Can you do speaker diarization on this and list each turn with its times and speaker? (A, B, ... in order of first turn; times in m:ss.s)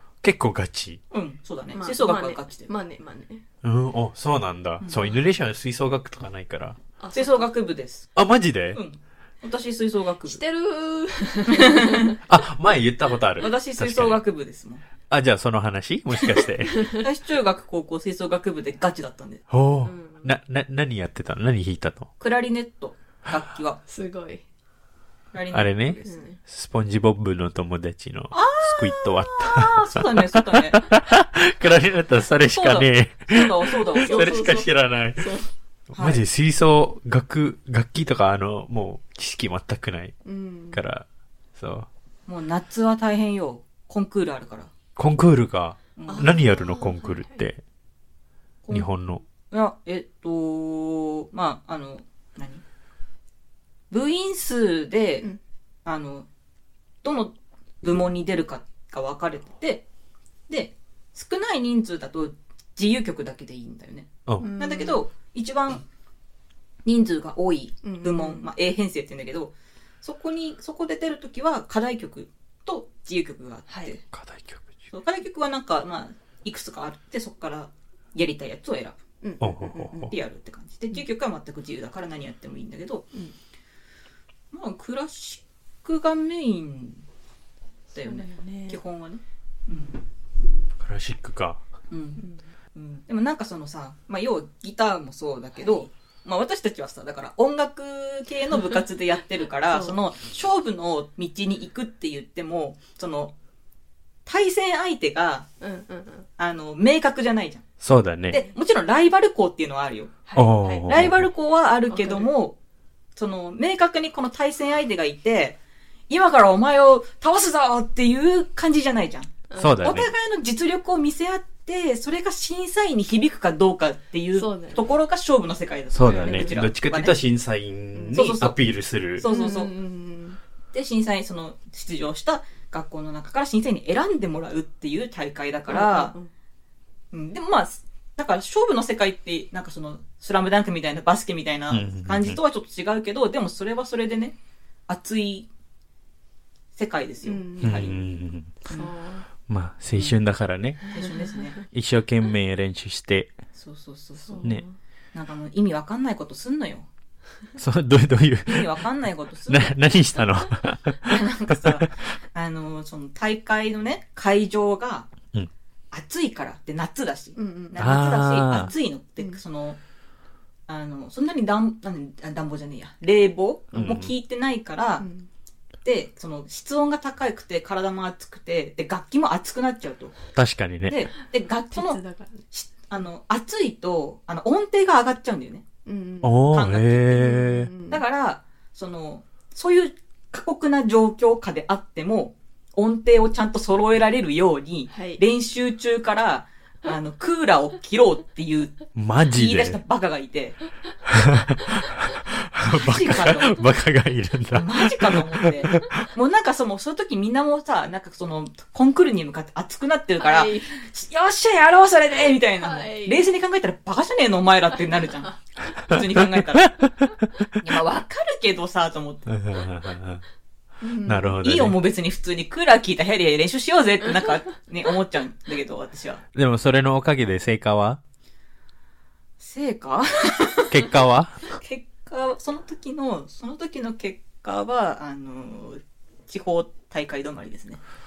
0:00.2-0:01.0 A
0:01.1-0:02.7 B
0:01.7-0:03.4 C
0:03.6-0:06.8 A
0:04.8-0:05.2 B
0:07.0-0:07.5 C
0:07.1-0:08.1 B
0:08.2-0:08.8 A
0:08.7-0:10.4 B
0:10.3-0:12.2 C
0:11.5-0:12.2 B
0:12.3-0:14.2 A
0:13.4-0:14.8 B
0:15.1-0:16.8 A
0:16.2-0:19.4 B
0:16.6-0:17.0 C
0:19.5-0:22.1 A
0:19.8-0:20.4 C
0:22.2-0:23.8 B
0:23.9-0:24.4 C
0:25.3-0:26.2 B
0:25.5-0:35.4 A
0:26.0-0:26.4 C
0:28.3-0:30.8 B
0:32.5-0:34.6 B
0:33.9-0:35.5 C
0:35.9-0:40.2 A
0:35.9-0:36.2 B
0:40.2-0:40.8 C
0:40.7-0:41.0 A
0:41.6-0:41.9 A
0:42.3-0:44.7 B
0:45.0-0:47.6 A
0:46.0-0:46.4 B
0:46.1-0:47.4 C
0:48.6-0:48.9 B
0:48.7-0:49.2 A
0:49.5-0:52.6 B
0:53.9-0:55.3 B
0:55.8-0:56.3 B
0:57.0-0:59.9 B
1:00.5-1:05.8 B
1:04.4-1:05.0 C
1:06.8-1:14.0 B
1:07.8-1:08.5 C
1:13.7-1:14.0 C
1:14.1-1:14.7 A
1:14.9-1:19.0 B
1:19.2-1:20.1 C
1:19.4-1:20.1 A
1:20.1-1:23.1 B
1:24.5-1:27.0 B
1:27.9-1:30.0 B
1:28.0-1:28.8 C
1:30.8-1:31.6 A
1:31.9-1:32.2 B
1:32.8-1:43.3 B
1:35.6-1:35.9 C
1:39.7-1:40.0 C
1:44.3-1:45.5 B
1:45.6-1:46.3 C
1:46.4-1:47.7 B
1:47.8-1:48.4 A
1:48.3-1:50.2 B
1:50.3-1:50.9 C
1:50.4-1:51.3 A
1:50.8-1:52.6 B
1:51.9-1:52.3 C
1:53.2-1:55.6 B
1:56.1-2:07.2 B
1:59.5-1:59.9 C
1:59.6-2:00.1 A
2:04.3-2:04.8 C
2:05.9-2:09.3 A
2:06.0-2:06.6 C
2:07.9-2:08.2 C
2:08.1-2:08.6 B
2:09.2-2:09.7 B
2:09.3-2:10.4 C
2:10.7-2:16.1 B
2:15.7-2:16.3 C
2:17.1-2:24.4 B
2:21.7-2:22.4 A
2:24.9-2:25.5 B
2:26.7-2:28.0 B
2:27.2-2:28.0 C
2:27.6-2:28.6 A
2:28.6-2:29.3 C
2:28.7-2:28.9 B
2:29.5-2:30.8 A
2:29.9-2:30.2 B
2:30.9-2:31.6 B
2:30.9-2:31.4 C
2:31.7-2:33.4 A
2:33.6-2:34.5 B
2:34.2-2:34.8 C
2:35.1-2:36.9 B
2:37.6-2:38.8 A
2:38.5-2:40.0 B
2:39.5-2:41.9 A
2:41.0-2:45.1 B
2:45.9-2:49.8 B
2:47.4-2:48.0 C
2:47.8-2:48.7 A
2:50.7-2:55.0 B
2:53.8-2:54.1 A
2:55.0-2:55.3 C
2:55.8-3:00.2 B
3:00.4-3:01.1 A
3:00.9-3:02.0 B
3:01.7-3:02.4 C
3:02.5-3:05.6 B
3:05.9-3:06.5 C
3:06.2-3:07.7 A
3:06.5-3:20.6 B
3:07.1-3:08.0 C
3:14.9-3:15.2 C
3:19.0-3:19.8 A
3:21.1-3:26.1 A
3:22.7-3:23.6 B
3:24.5-3:36.8 B
3:30.2-3:30.8 C
3:32.6-3:33.2 C
3:34.8-3:35.4 C
3:35.9-3:37.7 A
3:37.6-3:39.3 B
3:39.3-3:40.2 A
3:40.8-3:41.4 C
3:41.0-3:41.8 A
3:41.2-3:46.2 B
3:46.4-3:48.0 A
3:49.4-3:50.9 B
3:50.7-3:51.6 A
3:51.6-3:57.8 B